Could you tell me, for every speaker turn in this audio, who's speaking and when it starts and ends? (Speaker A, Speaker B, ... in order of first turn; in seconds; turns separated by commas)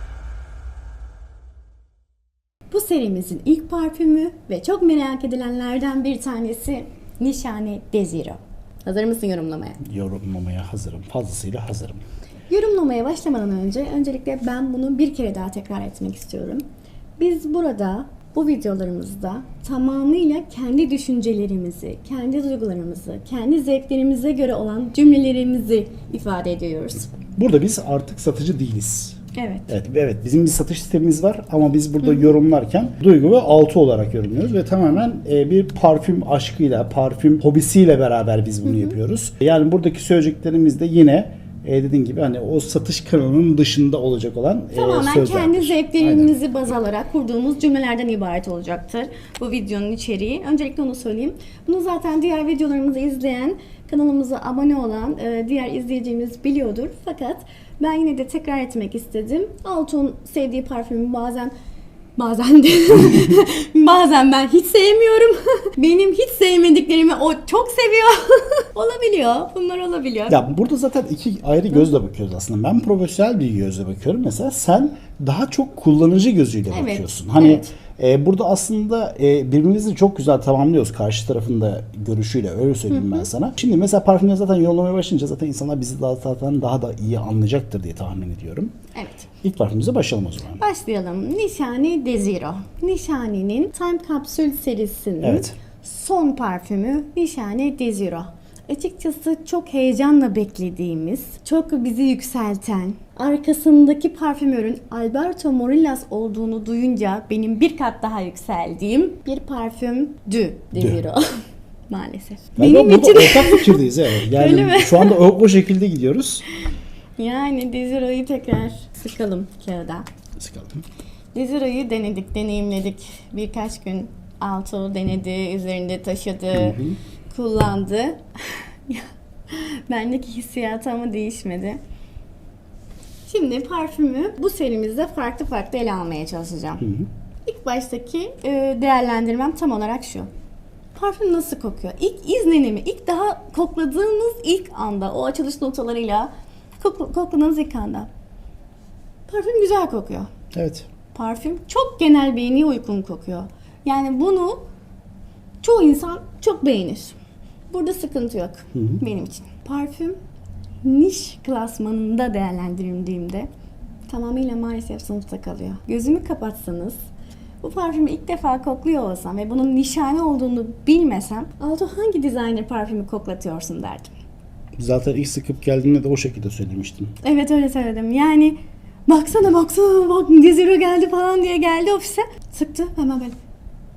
Speaker A: 2.7-9.8, Speaker B: 9.8-12.0, Speaker A: 12.5-16.6, Speaker A: 17.2-27.1, Speaker B: 27.4-46.4, Speaker A: 29.4-29.7, Speaker A: 32.0-32.3, Speaker A: 38.6-38.9, Speaker A: 44.7-61.5, Speaker A: 62.2-70.4, Speaker B: 70.3-88.7, Speaker A: 76.7-77.7, Speaker A: 82.9-83.3, Speaker A: 89.0-89.3, Speaker B: 89.4-90.6, Speaker A: 90.6-115.2, Speaker B: 95.2-95.5, Speaker B: 110.8-111.0, Speaker B: 112.6-116.4, Speaker A: 117.2-120.1, Speaker B: 120.4-120.8, Speaker A: 121.3-126.8, Speaker B: 126.5-127.0, Speaker A: 127.3-131.8, Speaker A: 133.3-136.8, Speaker B: 136.8-137.1, Speaker A: 137.5-140.3, Speaker A: 140.9-148.1, Speaker A: 149.3-150.3, Speaker B: 150.5-150.9, Speaker A: 151.1-154.6, Speaker A: 155.6-157.2, Speaker A: 157.7-160.2, Speaker B: 158.7-159.0, Speaker A: 160.8-163.5, Speaker A: 164.1-167.0, Speaker A: 167.6-174.1, Speaker B: 174.8-177.1, Speaker A: 177.2-183.4